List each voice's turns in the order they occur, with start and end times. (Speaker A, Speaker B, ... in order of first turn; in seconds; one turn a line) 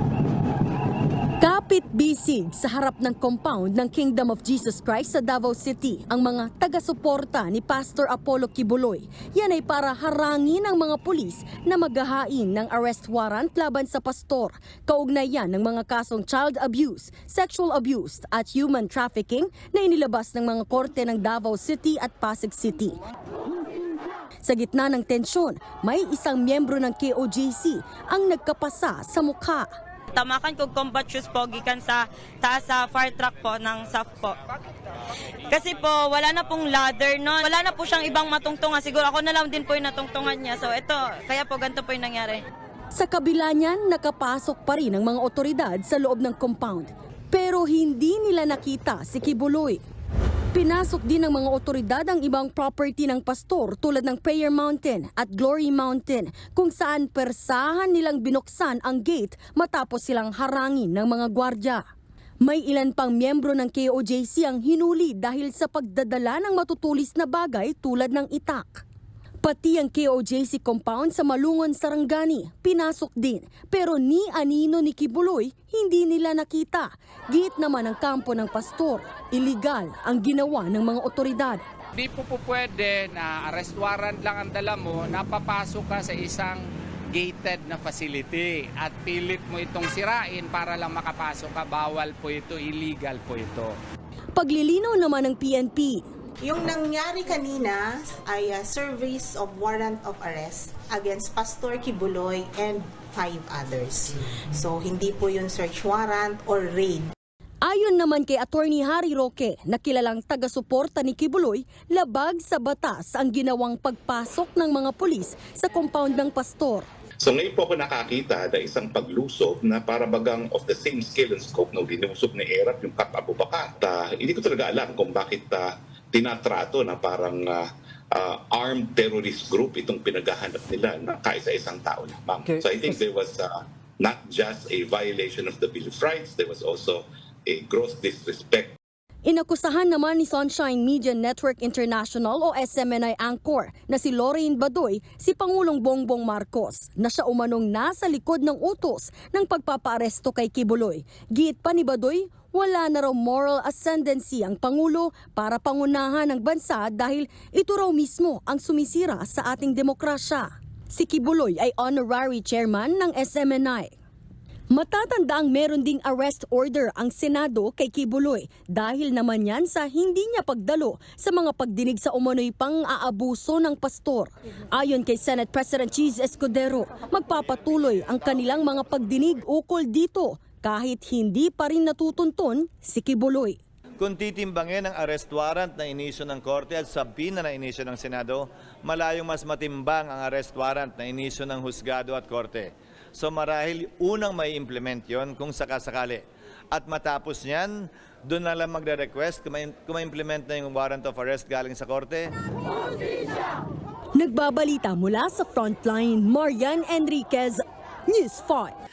Speaker A: 1.4-23.0
Speaker A: 24.4-29.7
Speaker B: 30.1-34.4
Speaker B: 35.5-42.4
Speaker A: 42.9-49.8
Speaker A: 50.5-61.8
Speaker A: 62.4-68.8
Speaker A: 69.4-81.6
Speaker C: 82.0-93.8
Speaker A: 94.3-96.0
Speaker D: 96.4-107.1
Speaker A: 107.6-116.9
Speaker E: 117.2-138.7
Speaker A: 139.2-163.9
Speaker A: 164.7-183.6
Speaker F: 184.0-202.3
Speaker A: 204.2-208.7